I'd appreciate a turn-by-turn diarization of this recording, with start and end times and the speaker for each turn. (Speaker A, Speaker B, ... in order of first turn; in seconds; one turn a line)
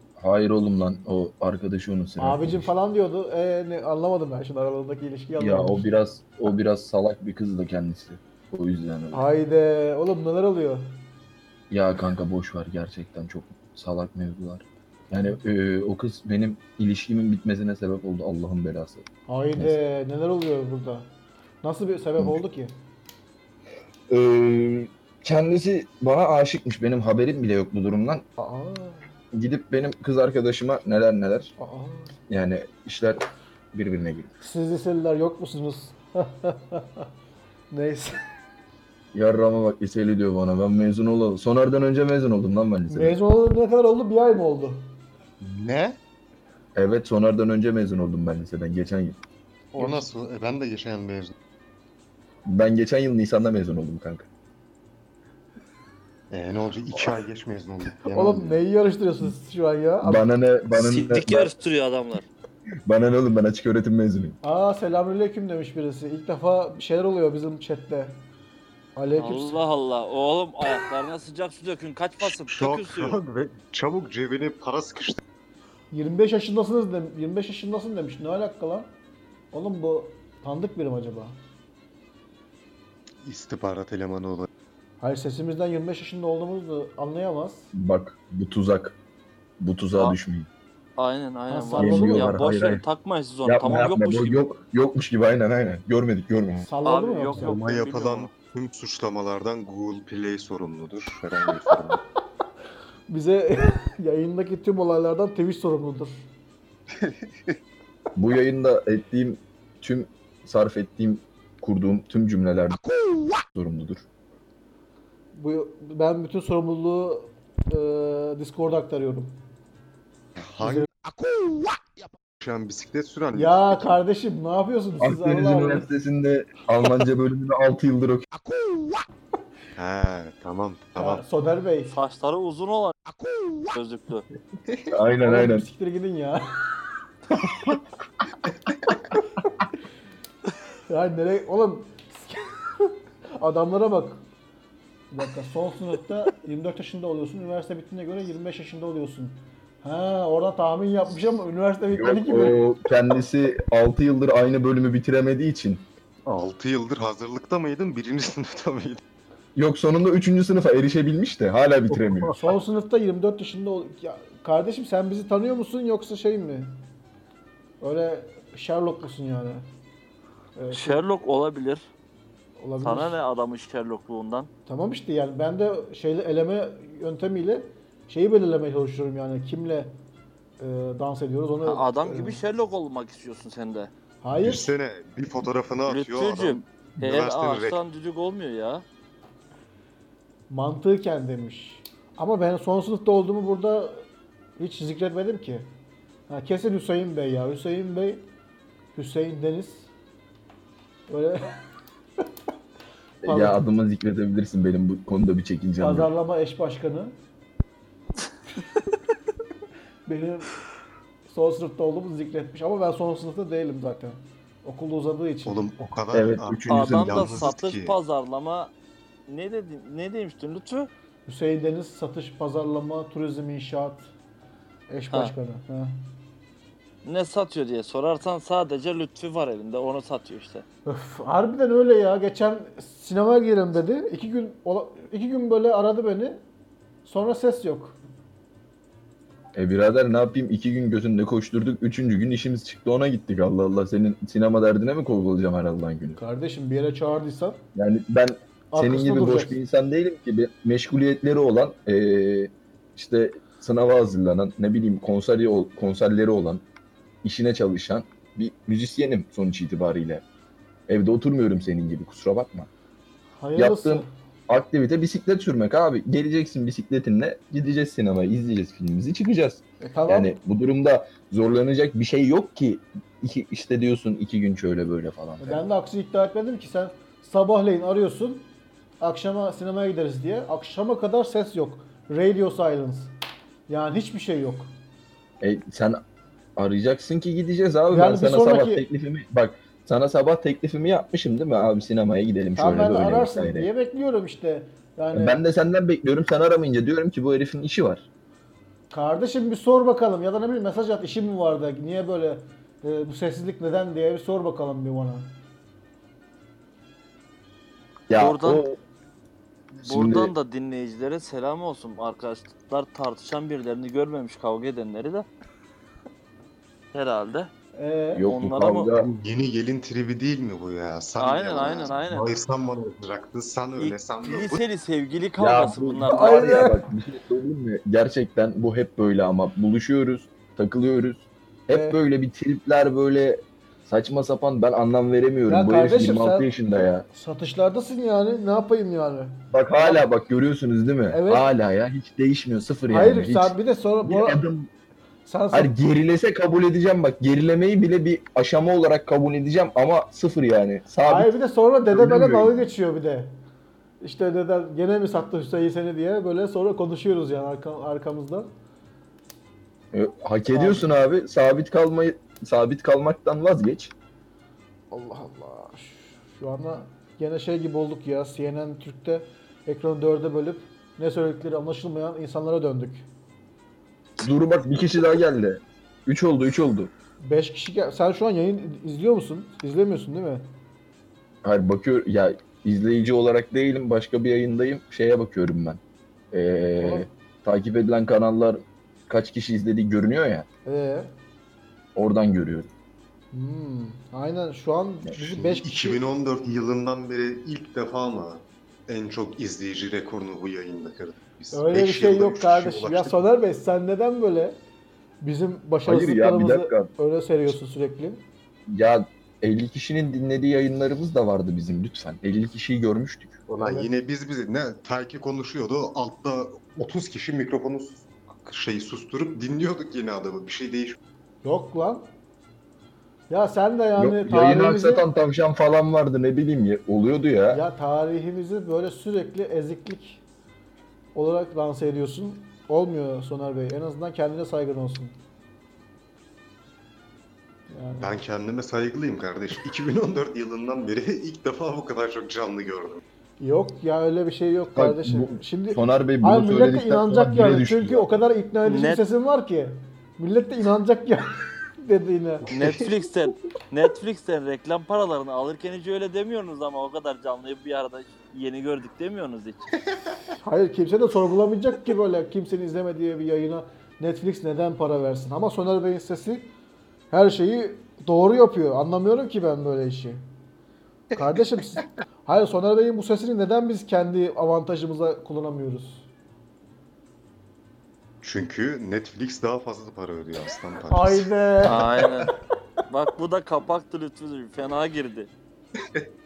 Speaker A: 0.2-2.7
Speaker B: 2.2-6.0
Speaker A: 5.4-9.2
Speaker B: 9.1-10.9
Speaker A: 11.7-19.8
Speaker B: 19.3-21.1
Speaker B: 21.6-22.7
Speaker A: 24.1-28.2
Speaker B: 28.4-29.1
Speaker A: 29.3-31.5
Speaker B: 31.6-32.2
Speaker A: 32.3-34.3
Speaker B: 34.4-37.1
Speaker B: 37.7-38.2
Speaker A: 39.1-43.2
Speaker B: 42.9-44.9
Speaker C: 45.4-46.0
Speaker A: 46.8-49.2
Speaker C: 49.7-51.4
Speaker B: 49.8-50.1
Speaker A: 52.5-54.3
Speaker C: 56.3-58.6
Speaker B: 58.1-60.2
Speaker A: 60.0-61.5
Speaker D: 60.7-62.3
Speaker A: 62.9-64.4
Speaker B: 64.4-68.2
Speaker B: 69.0-69.6
Speaker D: 69.2-73.2
Speaker C: 72.2-75.2
Speaker B: 75.9-78.9
Speaker B: 79.5-81.4
Speaker C: 83.2-84.5
Speaker B: 85.0-87.7
Speaker A: 87.7-89.0
Speaker A: 89.6-90.5
Speaker D: 91.0-94.4
Speaker B: 91.5-92.5
Speaker A: 91.8-92.8
Speaker A: 93.5-96.7
Speaker B: 96.6-97.6
Speaker D: 96.8-98.3
Speaker C: 97.4-102.0
Speaker B: 103.1-106.3
Speaker C: 106.9-107.6
Speaker A: 108.2-112.9
Speaker A: 113.5-114.0
Speaker B: 115.3-119.4
Speaker C: 120.4-120.9
Speaker B: 120.6-120.9
Speaker C: 122.4-124.0
Speaker B: 123.3-125.9
Speaker A: 125.0-128.3
Speaker C: 129.8-131.2
Speaker B: 131.0-132.0
Speaker D: 131.9-134.3
Speaker A: 134.9-135.7
Speaker B: 135.2-136.7
Speaker B: 140.9-144.2
Speaker B: 145.1-152.7
Speaker A: 151.9-155.9
Speaker C: 156.3-159.0
Speaker A: 159.6-162.4
Speaker C: 162.0-162.2
Speaker B: 162.3-166.8
Speaker B: 167.8-169.7
Speaker B: 170.6-171.0
Speaker D: 170.7-171.8
Speaker B: 172.6-173.2
Speaker D: 172.8-174.5
Speaker B: 174.7-180.0
Speaker B: 180.6-182.4
Speaker D: 181.7-183.9
Speaker B: 184.2-184.7
Speaker C: 184.4-187.8
Speaker D: 185.9-188.8
Speaker B: 190.5-194.1
Speaker B: 194.6-195.7
Speaker B: 196.3-198.3
Speaker B: 198.9-199.9
Speaker B: 201.1-201.6
Speaker A: 203.2-206.1
Speaker B: 203.2-203.7
Speaker B: 205.8-207.1
Speaker B: 210.1-210.6
Speaker B: 211.3-215.7
Speaker C: 215.5-218.0
Speaker A: 216.1-217.4
Speaker D: 216.7-218.7
Speaker D: 219.3-220.9
Speaker B: 221.3-224.1
Speaker B: 224.9-226.0
Speaker D: 227.0-230.7
Speaker B: 230.9-236.4
Speaker B: 237.1-238.0
Speaker A: 239.5-246.2
Speaker B: 246.2-247.6
Speaker A: 247.8-256.6
Speaker B: 248.7-249.6
Speaker A: 257.2-260.2
Speaker A: 260.9-262.7
Speaker B: 263.4-264.1
Speaker A: 263.6-275.6
Speaker B: 269.8-270.3
Speaker B: 275.4-278.5
Speaker B: 279.0-283.1
Speaker B: 283.7-284.7
Speaker A: 285.4-286.0
Speaker A: 286.6-293.7
Speaker B: 287.9-288.8
Speaker B: 292.6-295.4
Speaker A: 295.1-298.1
Speaker B: 298.9-305.3
Speaker A: 308.1-308.8
Speaker D: 308.1-308.7
Speaker D: 309.7-315.3
Speaker A: 309.8-310.3
Speaker D: 316.9-317.5
Speaker B: 317.8-318.3
Speaker A: 318.2-319.1
Speaker D: 318.3-318.9
Speaker C: 318.9-324.6
Speaker D: 321.2-322.3
Speaker D: 323.8-326.6
Speaker A: 325.4-337.1
Speaker B: 326.1-326.9
Speaker B: 331.7-332.0
Speaker B: 335.5-336.5
Speaker B: 337.1-340.0
Speaker A: 339.5-344.7
Speaker B: 341.1-341.5
Speaker B: 342.9-344.4
Speaker B: 345.3-345.7
Speaker A: 345.5-351.3
Speaker B: 351.0-353.4
Speaker A: 351.9-352.6
Speaker B: 354.0-358.5
Speaker A: 359.9-363.9
Speaker B: 360.5-360.9
Speaker B: 364.9-373.1
Speaker A: 374.2-376.9
Speaker B: 377.2-380.5
Speaker A: 381.4-385.8
Speaker A: 386.3-390.5
Speaker B: 386.8-387.1
Speaker B: 390.7-391.1
Speaker A: 392.0-392.7
Speaker B: 393.3-396.0
Speaker C: 395.3-403.2
Speaker B: 401.5-404.6
Speaker B: 405.2-408.2
Speaker A: 405.9-406.9
Speaker A: 408.7-413.4
Speaker C: 413.5-421.0
Speaker B: 413.6-413.9
Speaker B: 421.4-422.1
Speaker B: 423.3-425.0
Speaker A: 424.0-427.6
Speaker B: 427.5-430.2
Speaker B: 431.1-435.1
Speaker B: 437.7-438.1
Speaker C: 438.0-443.0
Speaker B: 443.4-452.5
Speaker A: 444.8-448.1
Speaker D: 448.6-449.0
Speaker D: 452.5-459.8
Speaker C: 452.6-452.8
Speaker B: 460.4-466.5
Speaker B: 467.1-470.2
Speaker B: 471.1-476.1
Speaker C: 478.2-481.3
Speaker B: 480.9-482.2
Speaker D: 481.6-482.3
Speaker D: 482.9-485.3